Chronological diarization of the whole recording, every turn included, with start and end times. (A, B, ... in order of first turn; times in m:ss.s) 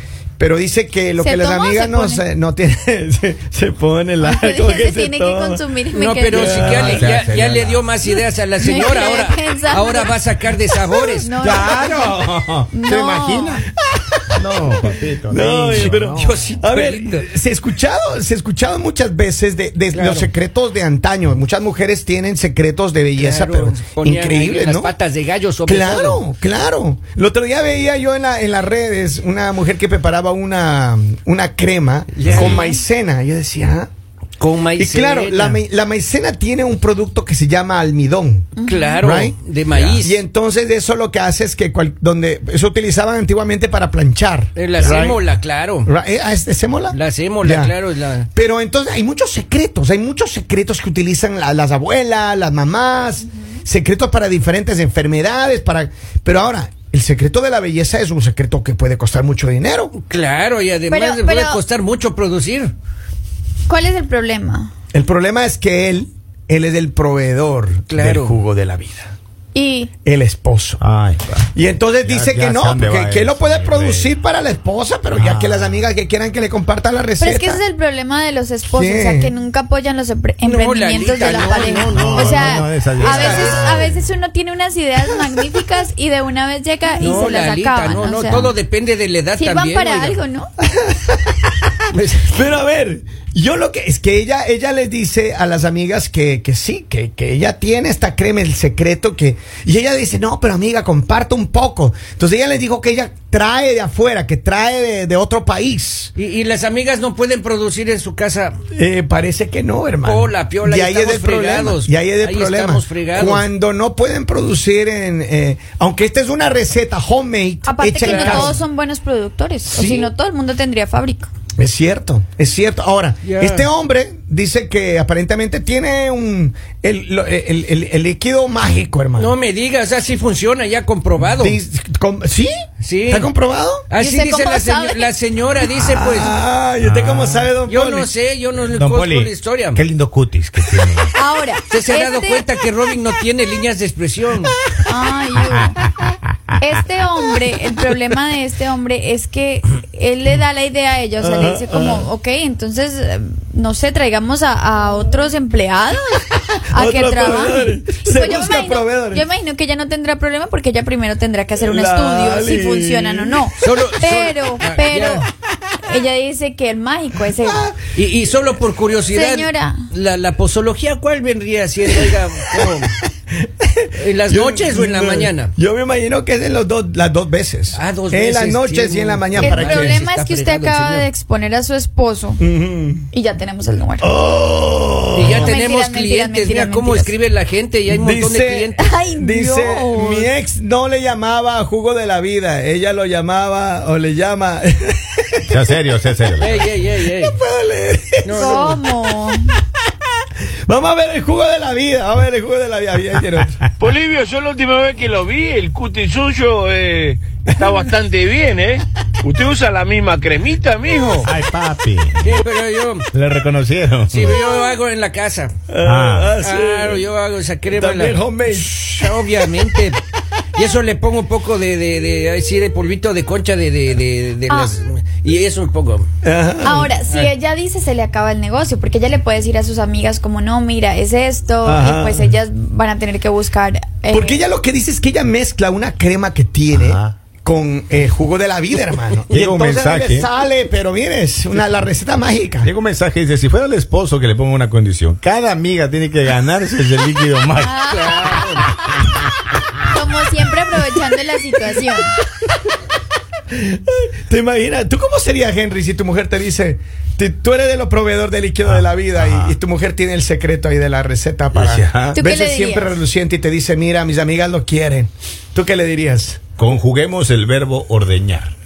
0:00.4-0:05.6 A
0:01.2-0:02.2 B
0:04.2-0:07.1 B
0:05.9-0:11.3 C
0:06.3-0:07.0 A
0:06.6-0:07.8 D
0:08.6-0:10.1 B
0:10.7-0:12.2 B
0:11.4-0:13.7 D
0:12.7-0:13.6 B
0:13.9-0:24.9 A
0:14.3-0:16.3 D
0:15.7-0:17.3 C
0:19.9-0:20.3 C
0:23.2-0:26.2 C
0:25.6-0:33.9 A
0:32.2-0:32.7 C
0:32.3-0:32.6 D
0:34.4-0:35.6 C
0:34.8-0:45.2 A
0:38.6-0:39.0 B
0:38.6-0:40.2 C
0:44.6-0:45.9 C
0:45.8-0:47.8 A
0:46.9-0:48.3 C
0:48.3-1:00.0 A
1:00.0-1:02.7 C
1:00.9-1:01.6 B
1:03.7-1:04.7 B
1:04.9-1:09.1 A
1:07.9-1:08.4 C
1:09.5-1:09.9 B
1:10.0-1:10.8 A
1:10.8-1:11.5 D
1:11.5-1:17.6 A
1:12.0-1:14.1 D
1:15.1-1:15.8 D
1:17.2-1:28.5 B
1:18.7-1:19.3 A
1:20.4-1:23.9 C
1:21.9-1:24.0 D
1:27.0-1:30.2 C
1:29.4-1:30.5 B
1:30.8-1:31.6 A
1:31.9-1:32.4 C
1:32.3-1:46.1 A
1:46.2-1:48.6 C
1:48.7-1:58.6 A
1:50.0-1:53.5 C
1:57.6-2:01.3 B
1:58.0-1:58.6 C
1:59.7-2:00.1 A
2:01.6-2:09.4 A
2:03.2-2:03.7 C
2:09.2-2:11.6 C
2:11.2-2:13.9 A
2:12.8-2:13.3 C
2:13.9-2:16.4 C
2:14.0-2:15.1 B
2:15.8-2:18.1 A
2:16.8-2:17.5 D
2:17.7-2:19.8 C
2:18.7-2:21.1 D
2:21.1-2:22.4 B
2:21.7-2:24.6 C
2:24.8-2:25.8 B
2:26.6-2:45.3 B
2:31.2-2:32.1 A
2:36.7-2:39.2 A
2:41.6-2:43.5 A
2:43.6-2:45.2 C
2:45.9-2:47.7 B
2:47.4-2:47.8 A
2:47.9-2:53.0 C
2:49.1-2:49.9 B
2:52.6-3:00.0 A
2:54.0-2:55.5 C
2:57.7-3:01.1 C
2:59.4-3:02.4 B
3:02.4-3:03.1 A
3:03.1-3:04.1 B
3:04.0-3:05.6 A
3:05.1-3:08.8 C
3:05.3-3:07.2 B
3:07.9-3:15.6 A
3:08.8-3:10.3 B
3:15.5-3:16.6 D
3:16.4-3:17.4 C
3:17.0-3:18.8 A
3:18.2-3:18.8 C
3:18.4-3:19.4 B
3:20.7-3:23.6 A
3:23.8-3:31.3 E
3:31.2-3:32.4 D
3:32.2-3:33.1 C
3:33.1-3:34.4 D
3:34.1-3:35.5 C
3:35.7-3:37.1 A
3:35.8-3:36.4 D
3:36.4-3:40.0 C
3:37.7-3:39.4 A
3:40.5-3:46.1 C
3:44.5-3:44.7 B
3:46.2-3:46.9 A
3:46.6-3:54.4 B
3:47.1-3:47.3 C
3:51.6-3:52.3 A
3:54.1-4:02.7 A
3:56.7-3:57.2 D
3:59.3-4:00.3 D
4:02.6-4:07.8 D
4:07.6-4:09.0 B
4:07.9-4:08.7 C
4:09.8-4:12.2 B
4:13.5-4:26.4 A
4:21.6-4:22.2 D
4:22.1-4:23.0 B
4:26.6-4:28.5 D